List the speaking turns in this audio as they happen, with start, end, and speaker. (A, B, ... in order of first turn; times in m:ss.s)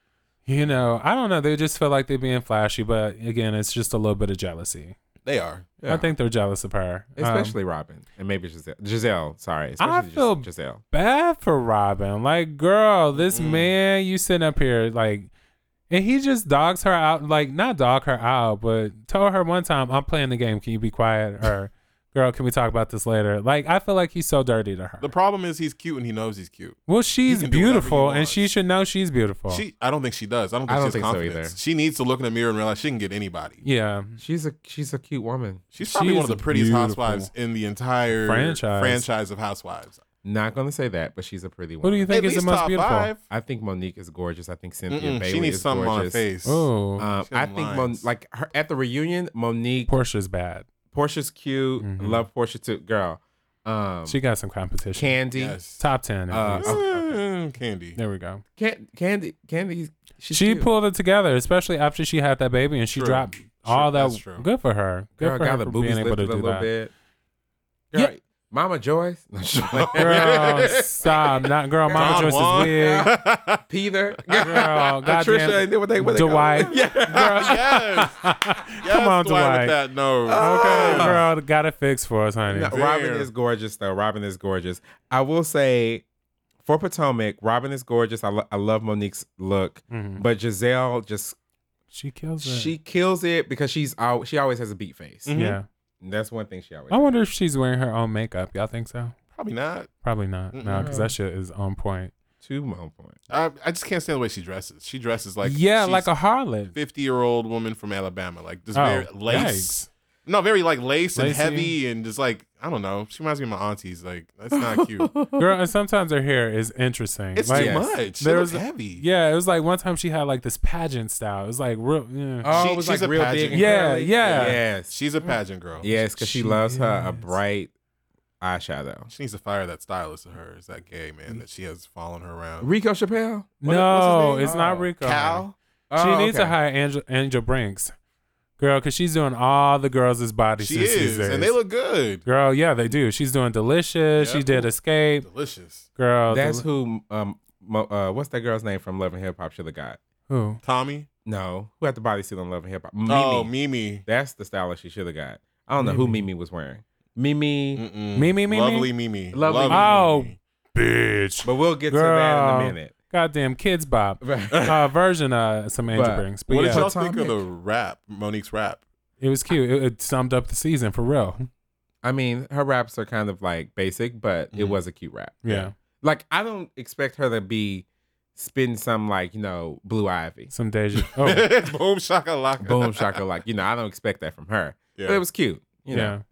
0:00.5-0:05.0 A
0:05.2-0:05.8 B
0:05.8-0:06.1 C
0:05.9-0:07.6 A
0:07.2-0:10.8 C
0:09.8-0:15.3 A
0:13.2-0:13.7 B
0:15.9-0:25.1 A
0:25.0-0:28.5 B
0:26.9-0:29.6 A
0:29.5-0:33.6 B
0:30.7-0:31.6 C
0:33.6-0:34.2 A
0:34.2-0:35.6 C
0:35.7-0:40.0 B
0:35.8-0:37.3 A
0:38.2-0:39.1 A
0:40.2-0:42.1 C
0:41.8-0:43.1 A
0:42.1-0:43.2 B
0:43.3-0:46.2 C
0:44.9-0:46.7 B
0:46.4-0:47.1 A
0:47.0-0:49.9 C
0:47.2-0:48.0 B
0:49.9-0:50.6 A
0:50.9-0:54.2 C
0:51.8-0:52.3 A
0:54.1-0:55.2 A
0:55.0-0:55.6 C
0:55.3-0:55.8 B
0:55.8-0:56.8 A
0:56.3-0:57.2 C
0:56.6-0:58.0 B
0:58.0-0:58.4 A
0:58.6-1:00.7 C
1:00.3-1:06.7 A
1:03.0-1:04.5 B
1:05.2-1:06.9 C
1:07.9-1:10.8 C
1:09.7-1:10.9 B
1:09.9-1:13.1 A
1:11.9-1:13.2 C
1:11.9-1:13.6 B
1:13.7-1:17.6 C
1:14.4-1:19.8 A
1:16.5-1:21.2 B
1:20.3-1:21.3 C
1:20.3-1:22.8 A
1:22.5-1:26.0 C
1:22.7-1:23.3 B
1:26.6-1:31.4 C
1:29.9-1:30.2 A
1:31.9-1:32.7 A
1:32.4-1:35.4 C
1:35.3-1:35.6 B
1:35.3-1:35.7 A
1:36.0-1:37.1 C
1:36.9-1:39.2 A
1:39.4-1:39.9 B
1:40.0-1:42.1 A
1:40.5-1:41.0 B
1:40.8-1:41.1 C
1:42.4-1:43.2 C
1:43.3-1:46.1 B
1:45.4-1:46.8 A
1:46.7-1:55.1 B
1:48.8-1:49.9 A
1:51.2-1:51.7 A
1:54.5-1:55.5 C
1:55.4-2:02.6 A
1:57.4-1:59.0 B
1:57.5-1:58.0 C
2:02.4-2:05.0 C
2:02.5-2:05.9 B
2:03.5-2:04.6 A
2:05.8-2:07.7 C
2:05.9-2:07.4 A
2:08.4-2:09.1 C
2:09.1-2:12.7 B
2:12.6-2:13.5 C
2:13.6-2:15.4 A
2:13.6-2:15.6 B
2:14.4-2:14.9 C
2:15.9-2:16.6 C
2:16.0-2:17.9 A
2:18.6-2:21.5 A
2:20.6-2:22.2 B
2:22.3-2:25.3 A
2:24.2-2:25.9 B
2:26.0-2:26.6 A
2:26.3-2:30.0 C
2:30.3-2:30.6 A
2:30.6-2:31.1 B
2:31.3-2:33.5 C
2:33.1-2:34.0 B
2:34.1-2:37.8 C
2:35.8-2:36.2 A
2:37.8-2:40.4 B
2:38.2-2:38.9 A
2:39.3-2:40.0 C
2:39.7-2:46.9 A
2:41.4-2:42.9 C
2:44.2-2:44.8 C
2:45.9-2:47.4 C
2:46.5-2:48.8 B
2:49.2-2:51.5 A
2:52.0-2:55.4 C
2:54.5-2:54.8 B
2:55.4-2:55.7 A
2:56.0-2:57.8 C
2:58.4-3:00.5 C
3:00.5-3:01.5 A
3:01.2-3:03.2 B
3:02.6-3:06.2 C
3:05.0-3:05.2 B
3:05.9-3:06.2 A